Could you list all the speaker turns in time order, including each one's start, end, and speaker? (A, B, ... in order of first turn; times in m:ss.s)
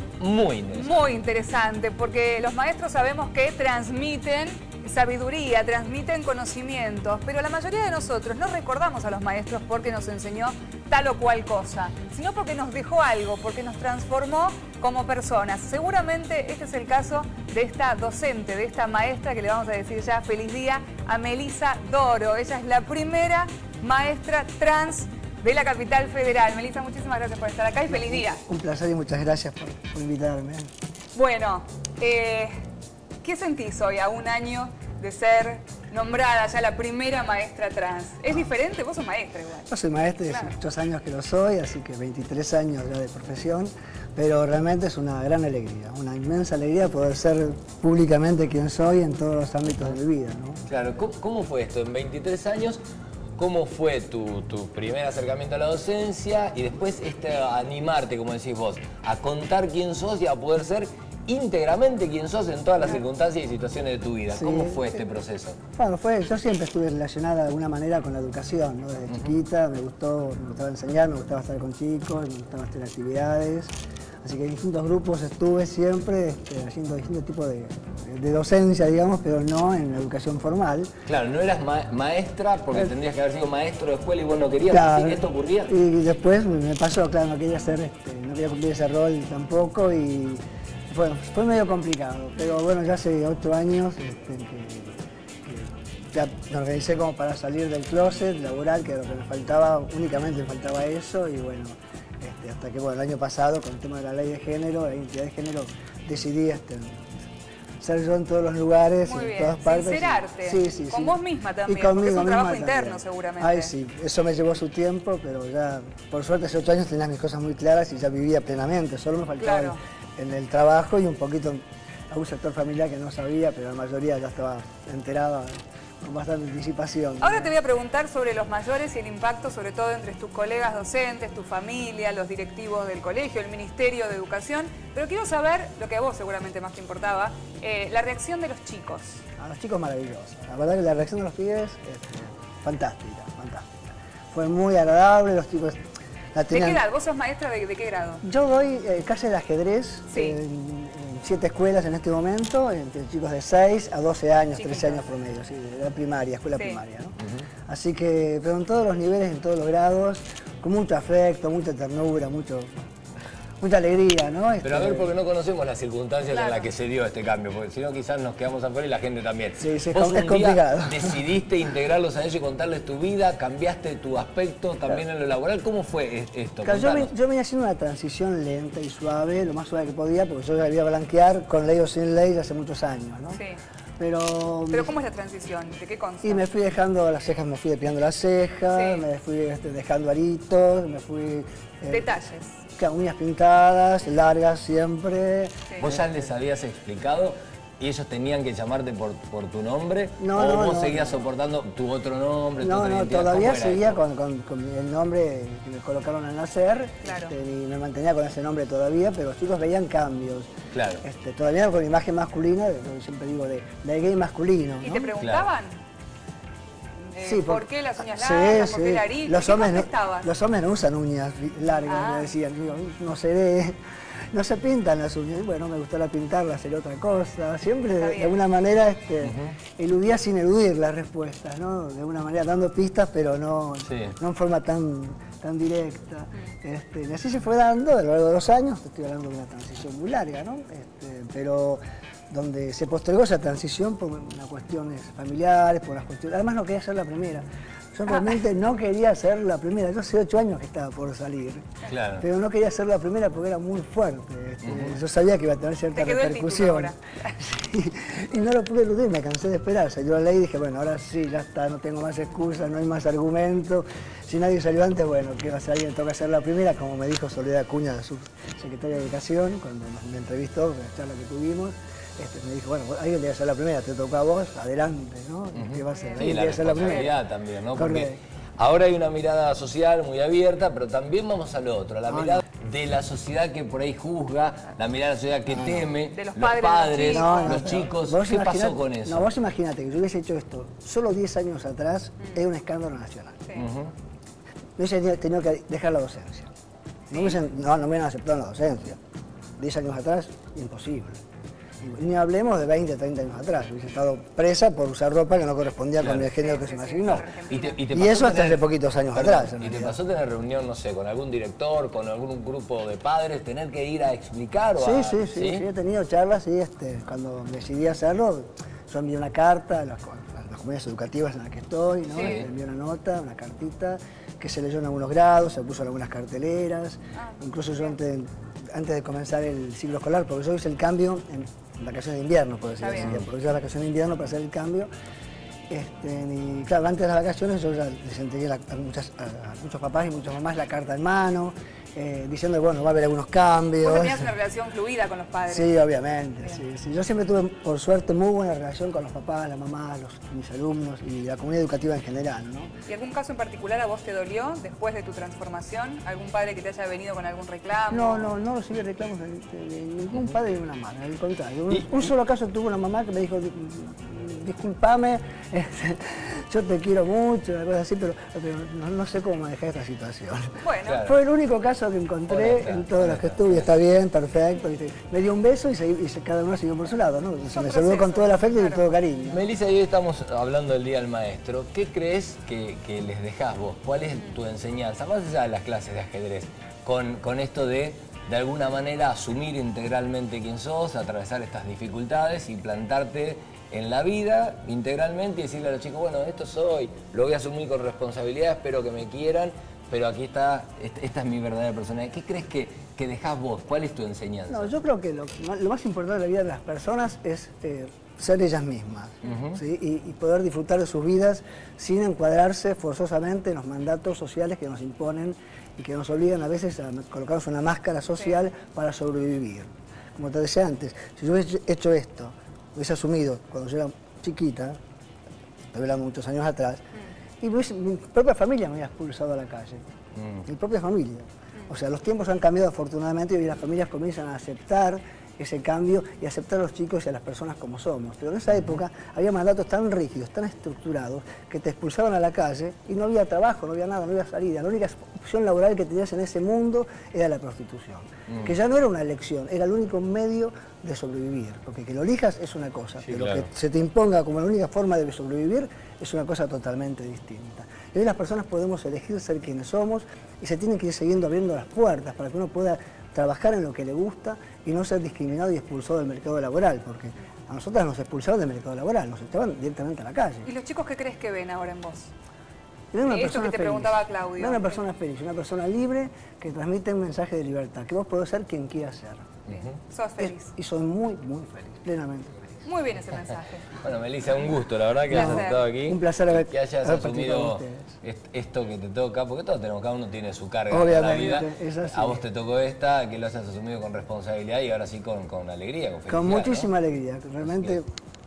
0:00.2-0:01.0 A
0:00.7-0:28.4 B
0:27.9-0:30.7 C
0:31.1-0:32.5 B
0:33.2-0:39.7 B
0:39.7-0:50.6 C
0:40.3-0:40.6 B
0:50.7-0:52.8 A
0:53.4-1:05.6 A
1:04.3-1:05.0 C
1:05.8-1:20.9 C
1:21.1-1:25.7 A
1:24.7-1:34.9 C
1:35.4-1:47.1 C
1:47.8-2:07.5 C
1:49.0-1:53.7 B
1:59.4-1:59.8 B
2:07.2-2:19.2 B
2:19.4-2:23.7 C
2:24.3-2:25.8 C
2:26.3-2:26.8 C
2:26.5-2:28.2 B
2:28.2-2:37.2 C
2:30.1-2:30.4 B
2:34.6-2:35.0 B
2:36.5-2:36.8 B
2:37.2-2:37.5 A
2:37.7-2:42.8 C
2:43.6-2:45.1 C
2:44.6-2:57.1 A
2:46.3-2:46.7 B
2:49.6-2:51.2 C
2:56.6-3:03.4 C
3:03.3-3:03.6 B
3:04.0-3:04.9 C
3:04.7-3:06.4 B
3:06.2-3:12.1 C
3:08.7-3:09.0 B
3:11.9-3:12.6 B
3:12.8-3:16.2 C
3:15.8-3:24.0 A
3:20.2-3:21.2 C
3:22.6-3:30.5 C
3:27.0-3:27.4 B
3:30.7-3:31.0 A
3:31.0-3:35.1 C
3:34.8-3:35.7 B
3:35.2-3:35.5 A
3:37.1-3:40.3 B
3:37.2-3:43.8 C
3:41.9-3:42.3 B
3:44.3-4:11.7 C
3:48.0-3:48.4 B
3:49.2-3:49.6 A
3:53.8-3:54.2 A
4:11.9-4:12.3 A
4:12.2-4:37.2 C
4:14.6-4:15.0 A
4:15.9-4:17.2 B
4:35.6-4:49.3 A
4:35.9-4:37.1 B
4:37.8-4:38.2 C
4:42.1-4:42.4 C
4:45.5-4:45.9 C
4:46.1-4:47.7 B
4:47.0-4:53.4 C
4:53.6-4:53.9 A
4:54.8-4:56.5 C
4:57.1-4:57.4 B
4:57.1-4:59.0 C
4:59.6-5:01.2 C
5:01.8-5:07.3 C
5:06.0-5:06.3 A
5:06.3-5:07.8 B
5:07.4-5:15.6 A
5:07.9-5:10.0 C
5:14.8-5:34.9 C
5:22.2-5:22.4 B
5:22.2-5:22.5 A
5:27.2-5:28.0 B
5:32.8-5:33.2 B
5:33.0-5:33.2 A
5:35.7-5:44.3 C
5:43.8-5:45.8 B
5:45.5-5:52.7 C
5:52.9-5:58.4 B
5:57.9-6:19.4 C
6:10.6-6:11.0 B
6:10.8-6:11.2 A
6:12.3-6:13.7 A
6:17.5-6:18.8 B
6:19.3-6:44.7 A
6:44.5-7:04.8 C
6:49.2-6:49.6 A
6:58.2-6:58.4 B
7:05.7-7:06.8 C
7:07.4-7:09.8 C
7:10.2-7:10.4 A
7:10.4-7:50.5 C
7:33.0-7:33.5 A
7:50.4-7:52.1 B
7:52.9-7:59.3 C
7:53.1-7:54.8 B
7:59.5-7:59.8 A
7:59.8-8:00.5 B
8:00.2-8:02.6 C
8:02.6-8:03.7 B
8:03.8-8:16.7 A
8:05.1-8:05.7 B
8:05.1-8:08.0 C
8:10.7-8:12.2 C
8:16.1-8:17.9 C
8:17.4-8:17.8 A